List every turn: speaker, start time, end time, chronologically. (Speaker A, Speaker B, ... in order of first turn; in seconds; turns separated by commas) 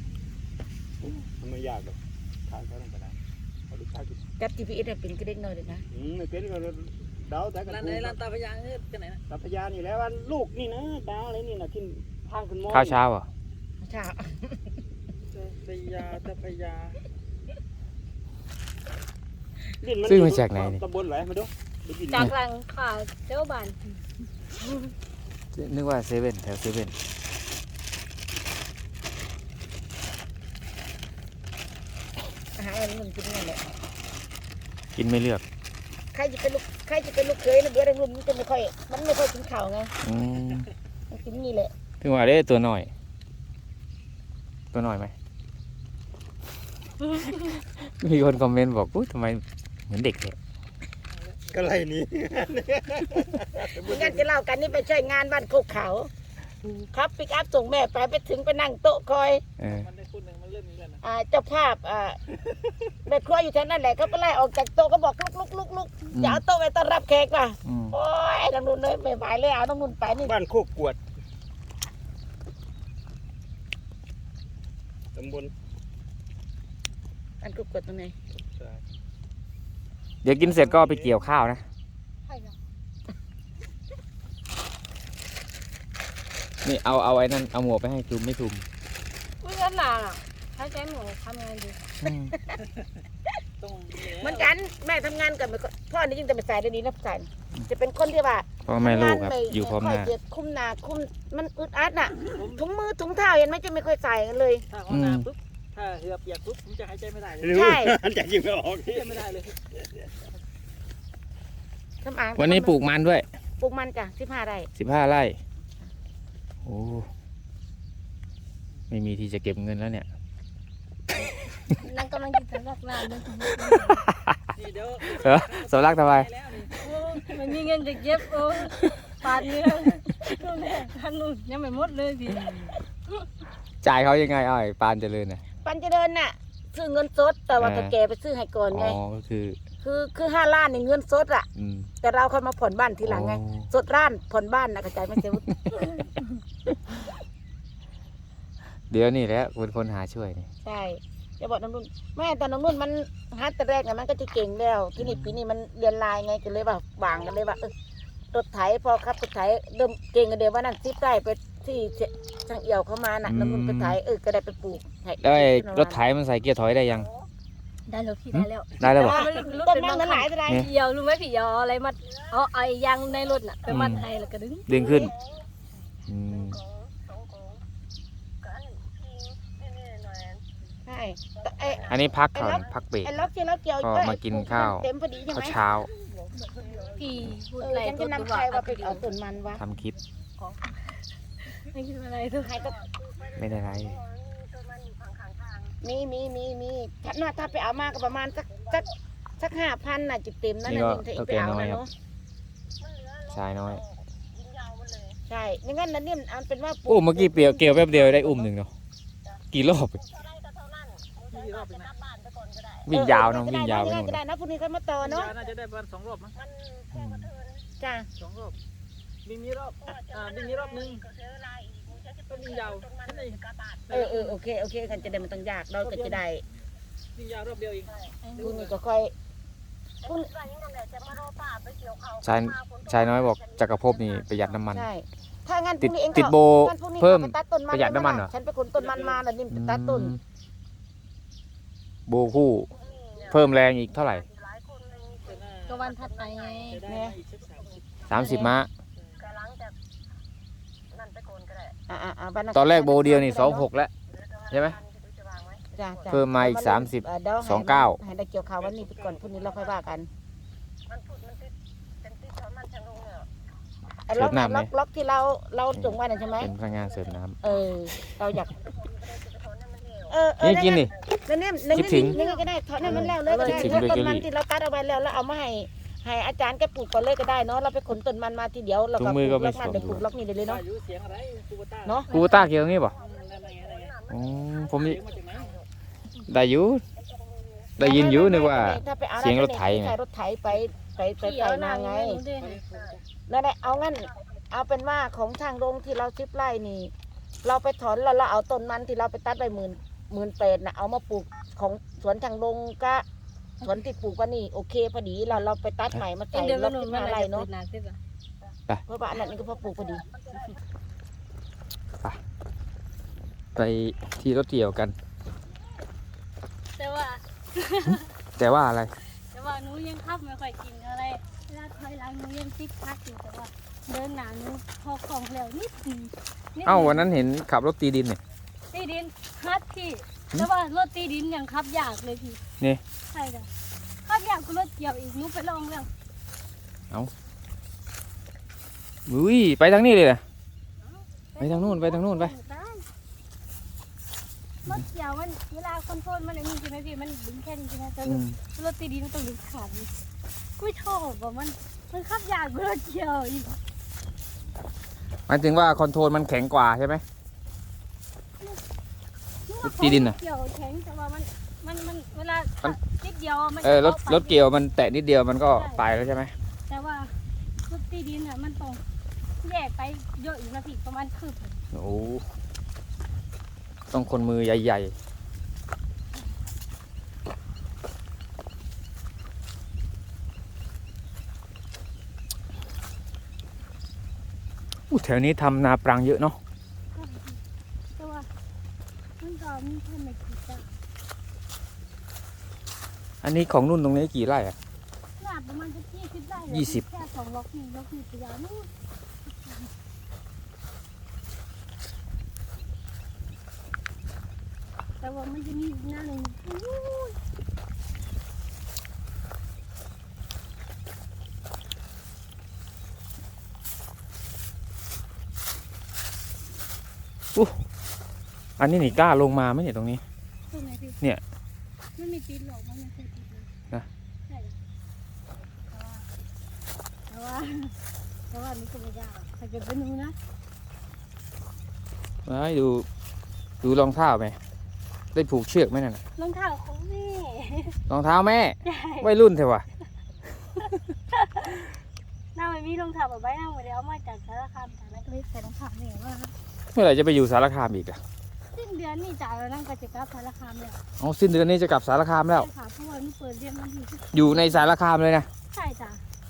Speaker A: 1.0-3.1, Speaker A: 3.7-4.2, Speaker B: 4.4-5.8, Speaker A: 5.9-8.2, Speaker C: 7.7-9.2, Speaker A: 9.3-13.0, Speaker D: 12.7-13.3, Speaker B: 13.8-14.7, Speaker C: 15.3-17.0, Speaker A: 19.8-22.3, Speaker D: 20.0-20.8, Speaker E: 22.1-24.0, Speaker D: 25.5-26.9, Speaker B: 32.6-33.6, Speaker D: 35.0-35.4, Speaker B: 36.1-39.9, Speaker D: 40.0-40.7, Speaker B: 41.1-41.7, Speaker D: 42.0-42.9, Speaker D: 44.7-45.1, Speaker D: 47.3-50.4, Speaker C: 51.1-51.6, Speaker A: 51.5-54.3, Speaker B: 53.7-56.1, Speaker B: 56.9-59.4, Speaker D: 59.6-59.9, Speaker C: 59.7-61.0, Speaker B: 61.0-62.2, Speaker B: 63.1-70.3, Speaker D: 66.1-66.4, Speaker D: 67.6-67.9, Speaker A: 70.2-71.0, Speaker A: 75.1-75.5, Speaker B: 77.4-78.1, Speaker A: 78.3-78.8, Speaker D: 80.2-81.6, Speaker A: 80.4-81.2, Speaker E: 82.2-82.6, Speaker D: 86.6-88.6, Speaker E: 89.4-91.8, Speaker D: 92.0-92.3, Speaker C: 93.6-94.5, Speaker B: 94.1-104.6, Speaker D: 98.7-100.1, Speaker C: 102.3-102.6, Speaker C: 104.7-107.6, Speaker D: 104.9-105.3, Speaker A: 107.4-109.2, Speaker B: 107.5-108.0, Speaker C: 108.8-109.6, Speaker B: 112.0-112.8, Speaker D: 112.3-113.2, Speaker B: 113.6-114.7, Speaker D: 114.8-115.4, Speaker D: 116.6-117.1, Speaker D: 118.9-120.0, Speaker E: 121.7-124.0, Speaker D: 123.6-124.4, Speaker C: 124.5-126.7, Speaker D: 125.1-126.3, Speaker E: 126.8-132.6, Speaker D: 133.8-135.4, Speaker B: 135.6-139.0, Speaker D: 137.6-137.9, Speaker D: 138.7-139.6, Speaker B: 139.8-141.5, Speaker D: 141.6-141.9, Speaker B: 142.0-146.1, Speaker D: 143.0-143.7, Speaker D: 148.9-150.5, Speaker B: 150.6-157.7, Speaker D: 155.0-155.4, Speaker B: 158.3-166.0, Speaker D: 163.2-164.0, Speaker D: 165.2-167.1, Speaker E: 167.9-174.7, Speaker D: 168.3-169.2, Speaker B: 168.8-170.7, Speaker D: 173.7-174.0, Speaker D: 174.7-175.1, Speaker B: 174.8-175.1, Speaker D: 176.1-176.6, Speaker B: 180.8-185.6, Speaker D: 181.9-183.1, Speaker D: 183.8-185.9, Speaker E: 186.8-189.1, Speaker B: 187.6-189.6, Speaker D: 189.6-190.0, Speaker E: 190.4-192.6, Speaker B: 192.4-192.8, Speaker D: 193.3-194.0, Speaker B: 195.8-201.9, Speaker D: 200.6-201.8, Speaker D: 203.3-203.8, Speaker B: 205.3-208.5, Speaker D: 206.9-208.7, Speaker D: 209.5-210.0, Speaker C: 211.3-211.9, Speaker D: 212.9-214.2, Speaker B: 212.9-215.3, Speaker C: 215.0-216.3, Speaker D: 216.9-217.3, Speaker B: 217.8-218.1, Speaker C: 218.2-218.5, Speaker C: 219.2-221.1, Speaker C: 222.3-224.4, Speaker B: 223.9-226.4, Speaker C: 225.8-226.2, Speaker C: 227.2-228.7, Speaker E: 228.2-228.5, Speaker B: 228.4-229.1, Speaker B: 230.1-230.3, Speaker D: 232.2-234.9, Speaker B: 234.7-240.2, Speaker D: 235.8-238.3, Speaker C: 238.8-239.2, Speaker D: 239.5-240.2, Speaker D: 242.1-242.7, Speaker D: 243.3-244.2, Speaker C: 245.2-245.8, Speaker E: 245.7-246.8, Speaker C: 246.7-248.1, Speaker B: 246.9-247.2, Speaker D: 248.1-248.7, Speaker B: 248.1-248.6, Speaker C: 249.0-249.2, Speaker B: 251.9-253.7, Speaker D: 252.5-253.9, Speaker D: 254.5-254.8, Speaker B: 255.7-260.1, Speaker D: 256.1-258.0, Speaker C: 258.7-259.4, Speaker B: 264.1-266.5, Speaker D: 264.1-264.7, Speaker D: 265.7-267.4, Speaker B: 267.4-268.5, Speaker B: 270.1-280.6, Speaker D: 270.4-270.9, Speaker D: 271.7-272.2, Speaker E: 271.7-274.0, Speaker D: 272.8-274.3, Speaker D: 279.0-280.1, Speaker C: 280.4-282.2, Speaker E: 282.1-282.5, Speaker D: 282.1-282.9, Speaker C: 282.9-284.0, Speaker D: 284.1-285.0, Speaker C: 284.7-285.6, Speaker D: 286.3-286.8, Speaker D: 287.8-289.9, Speaker B: 287.8-292.2, Speaker E: 291.2-292.6, Speaker C: 292.4-293.0, Speaker B: 293.3-296.9, Speaker B: 297.4-303.0, Speaker B: 303.6-307.5, Speaker E: 306.3-308.0, Speaker B: 308.9-310.0, Speaker D: 313.6-314.9, Speaker E: 316.7-318.1, Speaker D: 317.9-318.9, Speaker E: 319.0-327.1, Speaker D: 326.6-328.2, Speaker E: 328.7-332.4, Speaker E: 333.1-333.5, Speaker E: 334.0-335.9, Speaker D: 339.1-340.2, Speaker E: 340.8-342.9, Speaker D: 341.4-342.3, Speaker E: 344.6-349.9, Speaker D: 348.0-348.4, Speaker E: 350.6-353.6, Speaker D: 355.3-357.0, Speaker E: 359.5-364.7, Speaker D: 359.6-360.1, Speaker D: 363.6-366.3, Speaker E: 365.5-365.8, Speaker E: 366.7-368.8, Speaker E: 369.4-371.6, Speaker D: 371.7-372.2, Speaker D: 373.9-374.9, Speaker D: 384.9-386.4, Speaker E: 386.9-387.4, Speaker E: 388.0-388.3, Speaker E: 389.2-390.8, Speaker D: 393.2-394.6, Speaker E: 395.2-398.7, Speaker D: 396.5-396.8, Speaker E: 399.3-399.7, Speaker E: 405.0-407.1, Speaker D: 418.6-420.0, Speaker E: 420.5-421.0, Speaker E: 422.0-423.5, Speaker E: 424.3-424.6, Speaker E: 425.7-426.0, Speaker E: 427.1-427.8, Speaker E: 428.3-430.1, Speaker D: 432.2-432.9, Speaker D: 433.6-434.4, Speaker D: 435.1-436.0, Speaker E: 436.2-437.8, Speaker D: 437.9-439.6, Speaker E: 438.6-439.1, Speaker E: 440.6-441.7, Speaker E: 442.3-446.3, Speaker D: 446.7-448.0, Speaker E: 448.5-450.8, Speaker D: 451.0-452.5, Speaker E: 452.3-454.7, Speaker D: 454.1-455.3, Speaker E: 455.5-456.0